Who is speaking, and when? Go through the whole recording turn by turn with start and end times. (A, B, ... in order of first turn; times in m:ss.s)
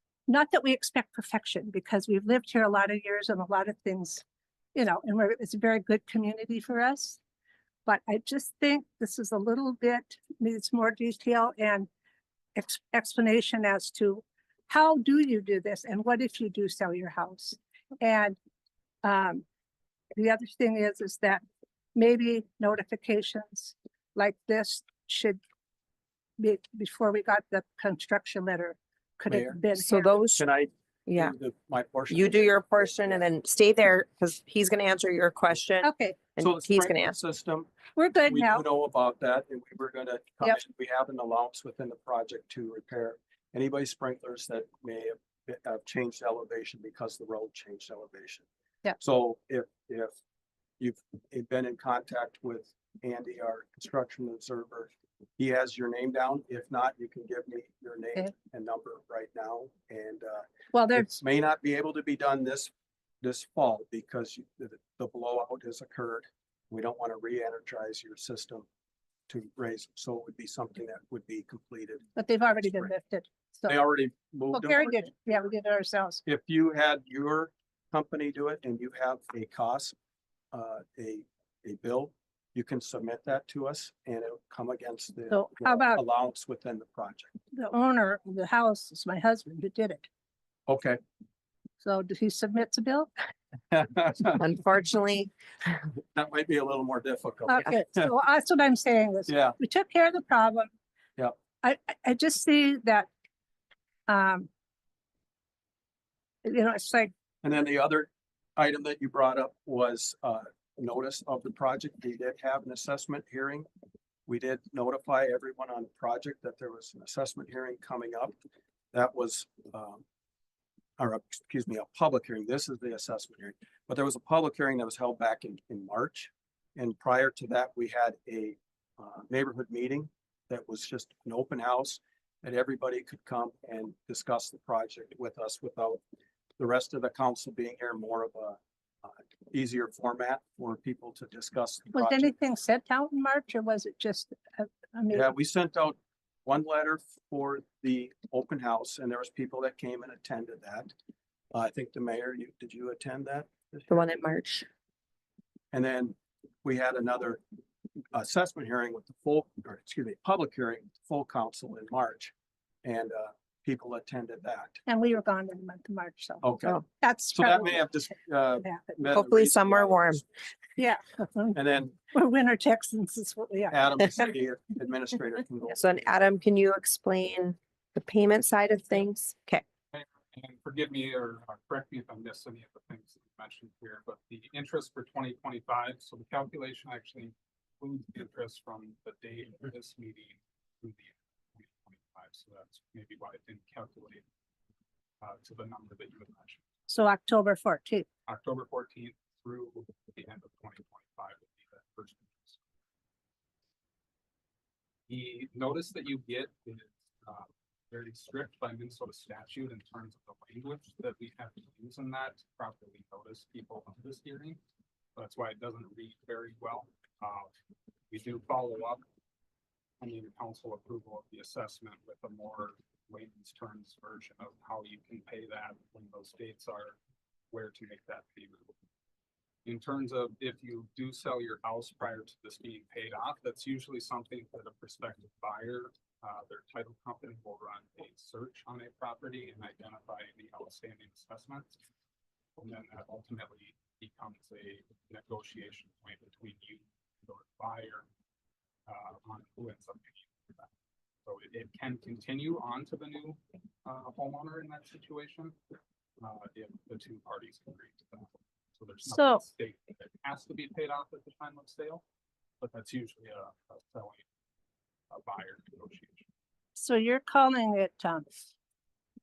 0:00.3-0:07.2 A
0:07.8-0:11.9 A
0:12.5-0:18.4 A
0:19.0-0:19.4 A
0:20.1-0:21.4 A
0:21.9-0:25.4 A
0:26.4-0:30.1 A
0:29.3-0:29.6 B
0:29.7-0:30.4 C
0:30.4-0:33.2 B
0:31.0-0:31.3 C
0:32.1-0:37.2 C
0:35.8-0:36.2 A
0:36.4-0:37.7 B
0:38.0-0:38.6 A
0:38.2-0:48.4 B
0:49.0-0:50.1 B
0:50.8-1:08.6 B
1:00.7-1:01.1 A
1:09.3-1:12.9 B
1:12.2-1:13.7 A
1:13.6-1:15.1 B
1:14.5-1:16.2 A
1:16.2-1:19.9 B
1:20.5-1:27.3 B
1:25.3-1:26.0 A
1:27.5-1:30.0 A
1:30.7-1:31.0 B
1:31.8-1:33.1 A
1:33.7-1:34.4 B
1:34.3-1:35.3 C
1:36.1-1:38.1 B
1:37.5-1:40.7 A
1:39.3-1:39.6 B
1:41.6-1:43.1 A
1:44.1-1:44.5 A
1:46.4-1:47.1 A
1:47.4-1:53.7 B
1:54.3-1:58.3 B
1:58.9-2:00.0 B
2:01.0-2:16.0 B
2:16.6-2:22.3 B
2:21.9-2:25.3 A
2:25.1-2:30.9 B
2:31.5-2:34.0 B
2:33.9-2:34.6 C
2:35.7-2:37.4 B
2:38.1-2:42.3 B
2:42.8-2:44.8 B
2:44.9-2:47.9 A
2:46.4-2:50.2 B
2:48.6-2:49.0 A
2:49.1-2:50.2 C
2:50.8-2:51.6 A
2:51.5-2:51.9 B
2:52.1-2:53.9 A
2:53.7-2:56.2 B
2:55.7-2:59.6 C
2:59.9-3:14.2 D
3:15.2-3:16.6 D
3:16.9-3:18.1 A
3:18.3-3:22.6 D
3:25.1-3:34.6 D
3:35.1-3:37.5 D
3:38.1-3:39.0 D
3:40.0-3:47.0 D
3:47.5-3:48.7 D
3:49.6-4:01.8 D
4:02.6-4:08.1 D
4:08.9-4:10.7 D
4:11.2-4:15.5 D
4:16.2-4:22.0 D
4:19.1-4:19.4 A
4:22.6-4:24.2 D
4:25.1-4:26.2 D
4:26.8-4:28.3 A